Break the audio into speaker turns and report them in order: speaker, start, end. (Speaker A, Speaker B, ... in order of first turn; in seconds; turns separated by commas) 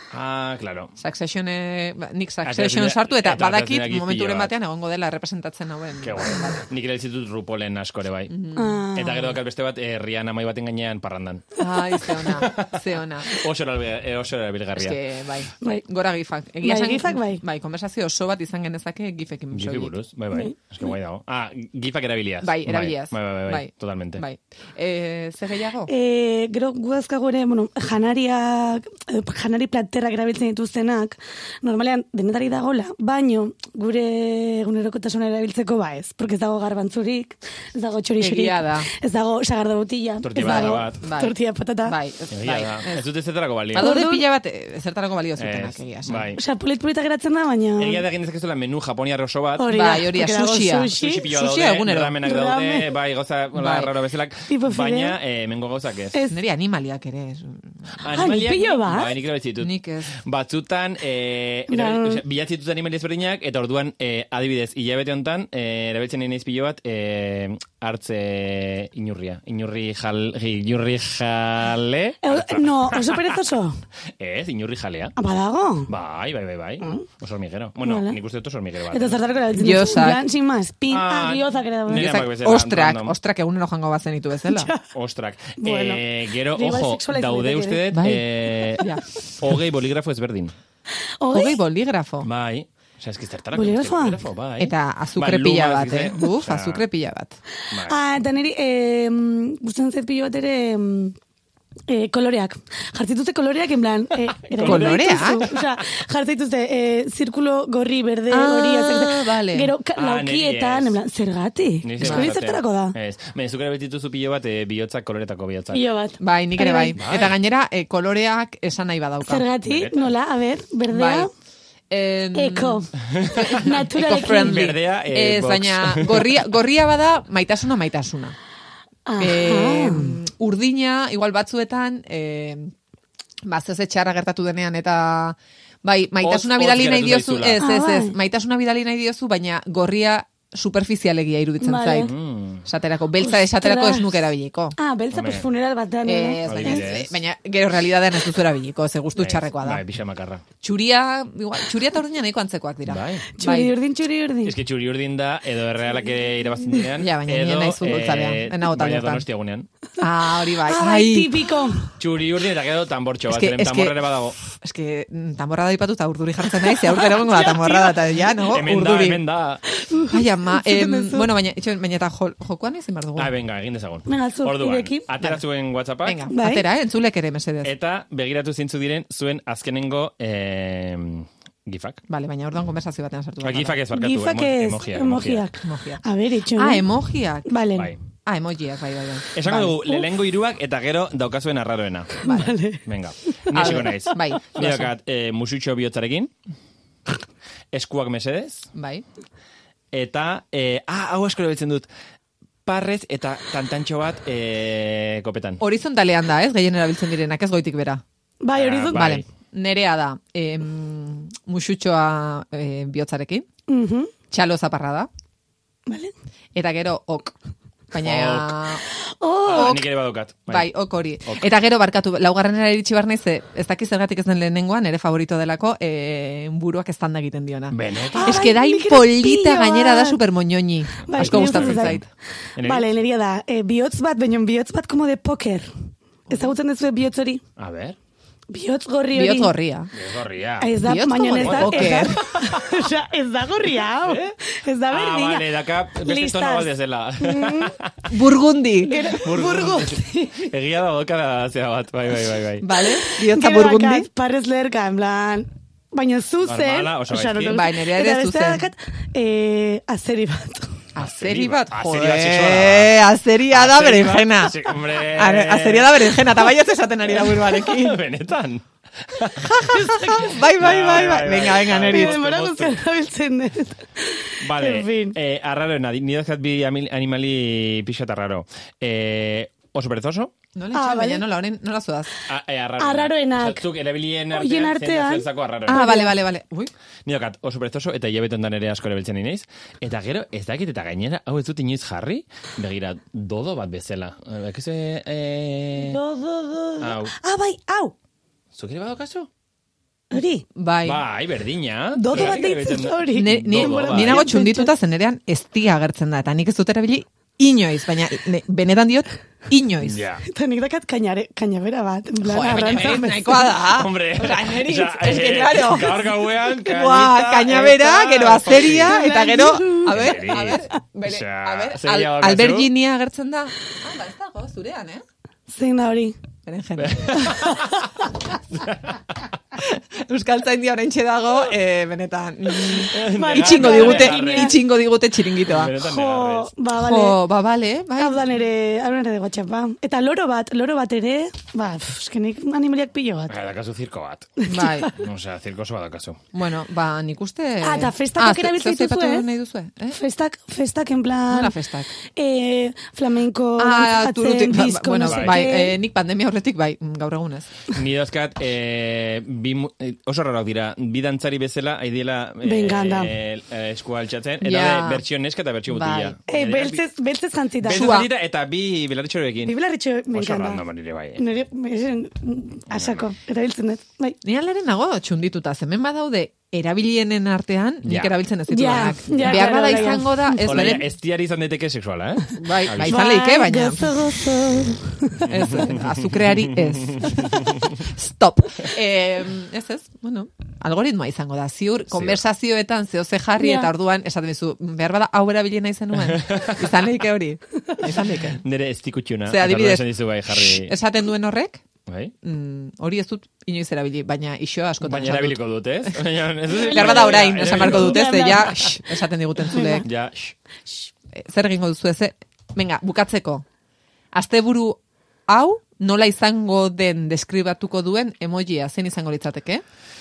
Speaker A: 0.1-0.9, Speaker B: 1.0-6.6, Speaker A: 2.4-4.5, Speaker A: 6.0-8.3, Speaker B: 8.3-8.8, Speaker C: 8.6-9.2, Speaker A: 8.9-15.0, Speaker B: 11.6-13.3, Speaker B: 14.7-19.9, Speaker C: 16.6-17.4, Speaker A: 19.5-24.2, Speaker C: 20.3-20.7, Speaker B: 22.4-25.9, Speaker C: 25.9-42.0, Speaker B: 38.2-38.9, Speaker A: 40.2-41.0, Speaker B: 40.4-43.0, Speaker A: 42.3-43.9, Speaker B: 43.7-46.3, Speaker C: 43.8-44.2, Speaker A: 45.4-46.4, Speaker C: 46.4-48.0, Speaker A: 47.8-49.7, Speaker C: 49.6-51.3, Speaker B: 49.7-52.2, Speaker A: 50.9-56.2, Speaker C: 52.2-53.0, Speaker B: 53.5-53.9, Speaker C: 54.5-55.2, Speaker B: 56.3-58.3, Speaker A: 58.0-73.4, Speaker C: 58.1-59.2, Speaker B: 59.6-60.1, Speaker C: 61.7-62.2, Speaker C: 72.2-73.8, Speaker A: 74.2-75.1, Speaker C: 75.2-75.9, Speaker A: 75.9-79.2, Speaker C: 76.8-77.1, Speaker C: 77.8-78.2, Speaker C: 78.9-82.1, Speaker B: 79.5-80.2, Speaker A: 80.9-83.1, Speaker B: 81.9-84.7, Speaker C: 84.4-84.9, Speaker A: 84.9-88.8, Speaker C: 85.5-87.8, Speaker B: 87.9-89.5, Speaker A: 89.4-90.5, Speaker C: 91.2-91.6, Speaker B: 91.3-92.3, Speaker A: 92.2-96.8, Speaker C: 93.5-94.2, Speaker B: 94.6-97.4, Speaker A: 97.7-98.0, Speaker C: 97.7-101.2, Speaker C: 101.9-113.0, Speaker A: 104.5-105.8, Speaker B: 104.6-105.4, Speaker B: 108.3-109.7, Speaker A: 110.0-111.0, Speaker A: 111.8-115.8, Speaker B: 112.0-112.4, Speaker C: 115.7-117.0, Speaker B: 116.2-119.5, Speaker A: 116.9-117.4, Speaker C: 119.2-121.3, Speaker A: 119.6-120.1, Speaker B: 120.9-121.3, Speaker B: 121.9-128.3, Speaker C: 122.3-124.6, Speaker A: 123.1-123.8, Speaker A: 124.4-126.5, Speaker C: 129.1-130.2, Speaker B: 129.2-132.7, Speaker B: 133.4-142.1, Speaker A: 136.2-137.6, Speaker C: 137.6-138.2, Speaker C: 141.6-142.1, Speaker A: 142.0-142.7, Speaker B: 142.6-144.8, Speaker C: 143.2-146.9, Speaker A: 145.1-145.4, Speaker B: 146.0-149.8, Speaker A: 146.5-147.2, Speaker A: 149.2-150.4, Speaker B: 150.6-153.7, Speaker A: 152.8-153.3, Speaker C: 153.3-154.6, Speaker A: 154.4-159.7, Speaker B: 157.0-159.3, Speaker B: 160.0-161.4, Speaker C: 160.6-161.9, Speaker A: 162.0-164.4, Speaker B: 163.3-169.2, Speaker C: 166.8-168.0, Speaker A: 168.5-169.6, Speaker C: 169.8-171.3, Speaker B: 170.1-173.3, Speaker A: 173.2-176.2, Speaker C: 174.1-175.1, Speaker B: 176.0-177.7, Speaker C: 176.3-176.7, Speaker A: 177.6-182.0, Speaker B: 182.1-183.8, Speaker A: 183.4-185.5, Speaker C: 183.9-187.9, Speaker B: 185.6-186.0, Speaker B: 186.6-187.5, Speaker B: 188.2-189.8, Speaker A: 189.3-196.3, Speaker C: 192.2-192.9, Speaker B: 192.2-192.5, Speaker B: 193.5-194.9, Speaker C: 193.8-194.2, Speaker A: 197.7-198.7, Speaker B: 198.7-199.0, Speaker A: 199.9-201.9, Speaker A: 202.7-205.6, Speaker B: 205.6-208.0, Speaker C: 208.4-209.2, Speaker A: 208.5-209.2, Speaker B: 208.9-213.5, Speaker C: 213.7-214.1, Speaker B: 214.3-215.1, Speaker C: 215.9-216.1, Speaker B: 216.5-217.3, Speaker B: 217.9-218.8, Speaker A: 218.0-218.7, Speaker C: 218.8-219.6, Speaker A: 219.4-221.6, Speaker B: 219.5-219.9, Speaker B: 220.5-232.1, Speaker A: 227.7-228.4, Speaker C: 228.1-230.2, Speaker C: 231.0-232.0, Speaker A: 231.1-232.0, Speaker A: 232.6-232.9, Speaker C: 232.6-235.7, Speaker C: 236.2-237.4, Speaker A: 237.6-238.0, Speaker C: 238.5-239.5, Speaker B: 239.1-239.9, Speaker A: 239.9-240.7, Speaker C: 240.6-247.7, Speaker B: 240.8-242.2, Speaker A: 241.4-242.8, Speaker A: 244.0-244.3, Speaker A: 244.9-248.1, Speaker B: 248.1-249.1, Speaker C: 248.9-250.5, Speaker A: 249.1-252.6, Speaker B: 252.6-254.1, Speaker C: 252.8-260.8, Speaker A: 256.4-257.6, Speaker B: 257.5-258.6, Speaker B: 260.9-268.0, Speaker A: 261.0-263.0, Speaker A: 263.5-269.9, Speaker B: 269.4-272.2, Speaker C: 269.5-270.4, Speaker A: 270.6-272.8, Speaker C: 271.9-275.2, Speaker A: 274.4-280.3, Speaker B: 280.6-282.1, Speaker C: 280.7-281.2, Speaker A: 282.3-285.9, Speaker C: 282.8-283.6, Speaker C: 284.3-286.1, Speaker B: 285.7-286.7, Speaker A: 287.1-296.0, Speaker C: 295.8-297.9, Speaker A: 296.8-297.1, Speaker A: 298.5-299.3, Speaker C: 300.1-300.4, Speaker B: 300.6-301.0, Speaker A: 300.8-304.2, Speaker C: 301.9-304.7, Speaker B: 303.1-310.0, Speaker A: 309.8-310.2, Speaker C: 310.2-313.6, Speaker B: 312.2-325.0, Speaker A: 312.5-319.0, Speaker C: 318.5-320.1, Speaker A: 319.9-322.7, Speaker C: 325.5-326.2, Speaker B: 326.4-327.3, Speaker A: 326.8-327.9, Speaker C: 327.4-327.8, Speaker A: 328.5-329.0, Speaker B: 329.5-335.7, Speaker A: 332.6-334.6, Speaker C: 333.0-334.6, Speaker A: 335.5-336.5, Speaker C: 335.8-337.2, Speaker B: 336.8-338.2, Speaker C: 338.0-343.4, Speaker A: 343.3-344.3, Speaker C: 344.4-345.0, Speaker B: 344.5-344.9, Speaker A: 344.9-346.2, Speaker B: 346.3-350.0, Speaker C: 347.6-349.3, Speaker C: 349.9-351.5, Speaker B: 351.3-351.9, Speaker C: 352.1-355.8, Speaker B: 353.6-357.5, Speaker A: 355.1-355.4, Speaker A: 357.7-366.8, Speaker C: 362.4-363.1, Speaker B: 364.4-365.1, Speaker B: 365.7-366.1, Speaker C: 366.3-367.9, Speaker A: 367.5-369.6, Speaker B: 367.7-368.1, Speaker C: 369.4-370.6, Speaker A: 370.1-371.2, Speaker C: 371.1-374.2, Speaker A: 372.7-373.1, Speaker B: 374.2-380.9, Speaker A: 377.8-378.1, Speaker C: 378.5-380.7, Speaker A: 379.2-383.0, Speaker B: 382.4-384.0, Speaker C: 382.9-385.3, Speaker B: 385.2-398.4, Speaker A: 385.2-387.6, Speaker A: 391.9-392.2, Speaker C: 393.4-393.7, Speaker A: 395.9-396.8, Speaker A: 398.4-400.8, Speaker B: 399.2-401.6, Speaker A: 401.9-402.1, Speaker B: 402.2-406.0, Speaker A: 404.8-408.5, Speaker C: 406.5-408.8, Speaker B: 406.5-409.9, Speaker C: 409.4-409.9, Speaker A: 409.7-410.4, Speaker B: 411.1-413.4, Speaker B: 414.1-419.6